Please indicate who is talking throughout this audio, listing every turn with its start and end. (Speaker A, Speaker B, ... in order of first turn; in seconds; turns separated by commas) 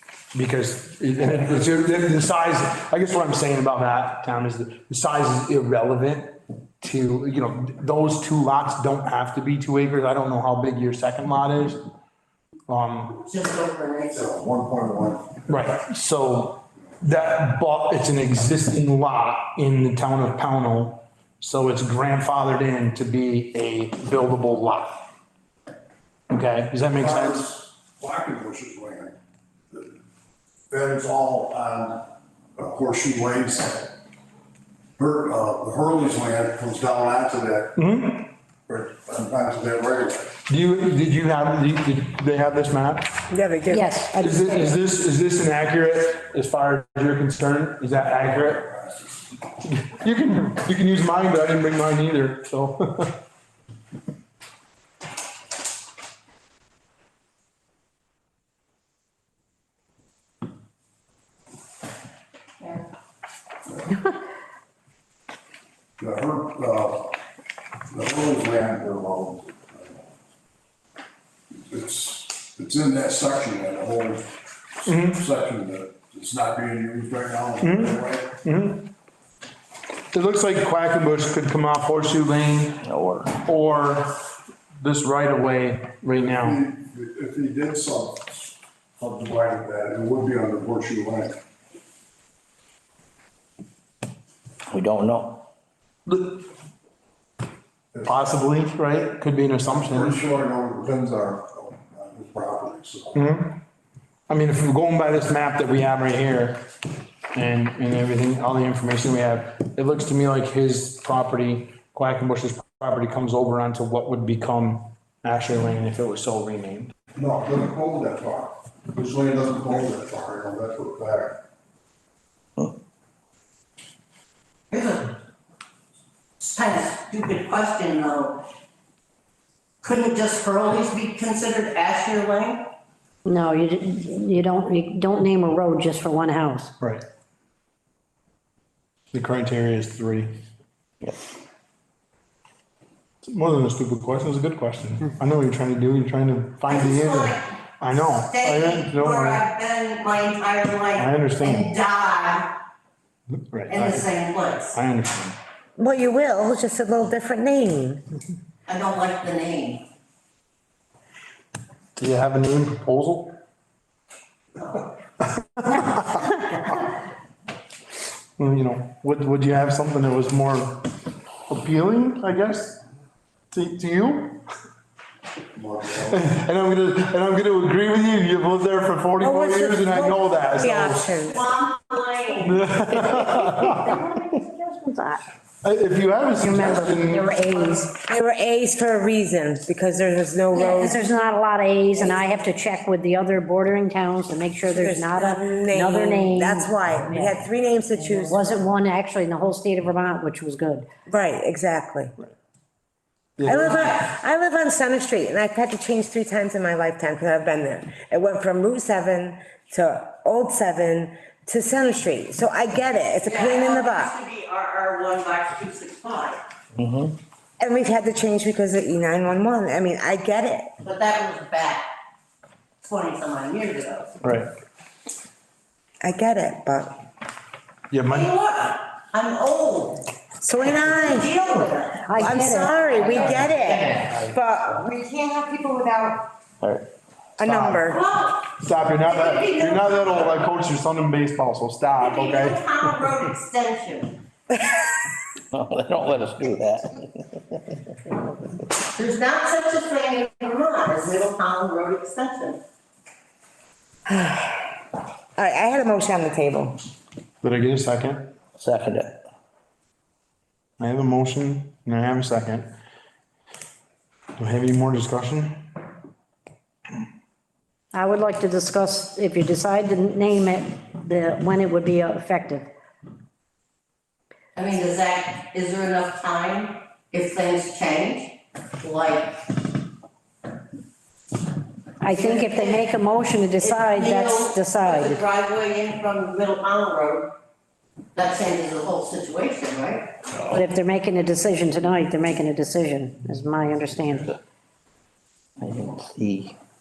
Speaker A: 0.3-11.8, Speaker A: 12.7-13.2, Speaker B: 13.3-14.3, Speaker C: 14.1-15.3, Speaker A: 15.5-25.0, Speaker A: 26.3-27.5, Speaker C: 26.9-29.1, Speaker C: 30.7-32.0, Speaker C: 32.5-33.9, Speaker C: 35.0-37.7, Speaker A: 37.8-38.3, Speaker C: 38.7-40.3, Speaker A: 40.5-43.1, Speaker D: 43.3-43.9, Speaker E: 43.7-44.8, Speaker A: 44.2-48.7, Speaker A: 49.6-53.2, Speaker B: 62.6-62.9, Speaker C: 63.7-64.0, Speaker C: 66.0-67.1, Speaker C: 67.9-70.0, Speaker C: 71.5-78.3, Speaker A: 74.8-75.2, Speaker A: 77.6-78.9, Speaker A: 80.1-82.8, Speaker F: 82.8-83.3, Speaker A: 83.4-84.1, Speaker A: 84.8-86.6, Speaker C: 86.3-91.4, Speaker F: 94.7-95.4, Speaker A: 96.1-96.5, Speaker A: 98.0-100.2, Speaker C: 99.7-103.2, Speaker A: 103.1-103.6, Speaker A: 104.3-106.6, Speaker A: 107.3-116.9, Speaker C: 117.1-121.4, Speaker B: 124.7-125.1, Speaker B: 126.4-128.4, Speaker B: 129.8-132.7, Speaker E: 133.2-136.7, Speaker A: 139.1-140.3, Speaker A: 143.2-149.4, Speaker B: 146.7-152.5, Speaker A: 151.0-151.7, Speaker A: 153.5-154.1, Speaker B: 153.7-154.8, Speaker A: 154.7-155.4, Speaker D: 155.8-158.0, Speaker B: 158.7-159.8, Speaker A: 162.0-163.3, Speaker A: 165.2-166.4, Speaker A: 168.4-170.8, Speaker A: 171.5-172.8, Speaker A: 173.5-174.4, Speaker C: 175.6-176.1, Speaker A: 176.1-181.1, Speaker D: 179.2-181.4, Speaker B: 181.3-182.6, Speaker A: 182.4-184.1, Speaker E: 183.1-185.2, Speaker A: 185.6-187.3, Speaker E: 186.4-187.9, Speaker D: 187.9-191.0, Speaker E: 190.5-197.3, Speaker D: 194.7-198.6, Speaker E: 198.0-200.8, Speaker D: 201.1-202.1, Speaker A: 203.4-203.9, Speaker D: 203.4-214.1, Speaker B: 203.5-204.0, Speaker B: 213.2-216.4, Speaker F: 216.8-217.2, Speaker D: 217.6-220.7, Speaker B: 220.8-221.9, Speaker B: 222.8-224.1, Speaker A: 224.2-224.5, Speaker D: 226.0-226.9, Speaker A: 227.9-228.3, Speaker B: 228.1-230.0, Speaker D: 230.4-231.3, Speaker B: 230.8-234.2, Speaker E: 232.1-232.7, Speaker D: 232.1-236.3, Speaker F: 236.6-236.9, Speaker D: 237.4-238.0, Speaker A: 237.4-237.9, Speaker B: 237.9-238.5, Speaker A: 238.6-242.6, Speaker B: 239.0-240.5, Speaker B: 242.0-244.1, Speaker F: 245.5-247.6, Speaker B: 248.9-252.6, Speaker D: 254.1-254.7, Speaker D: 255.4-256.9, Speaker A: 257.4-258.3, Speaker F: 258.6-259.2, Speaker A: 260.8-262.7, Speaker A: 264.4-265.6, Speaker E: 267.9-272.7, Speaker B: 274.5-279.4, Speaker E: 282.0-285.2, Speaker B: 282.0-282.9, Speaker B: 283.6-287.3, Speaker B: 288.1-290.4, Speaker E: 290.5-294.3, Speaker F: 295.6-296.6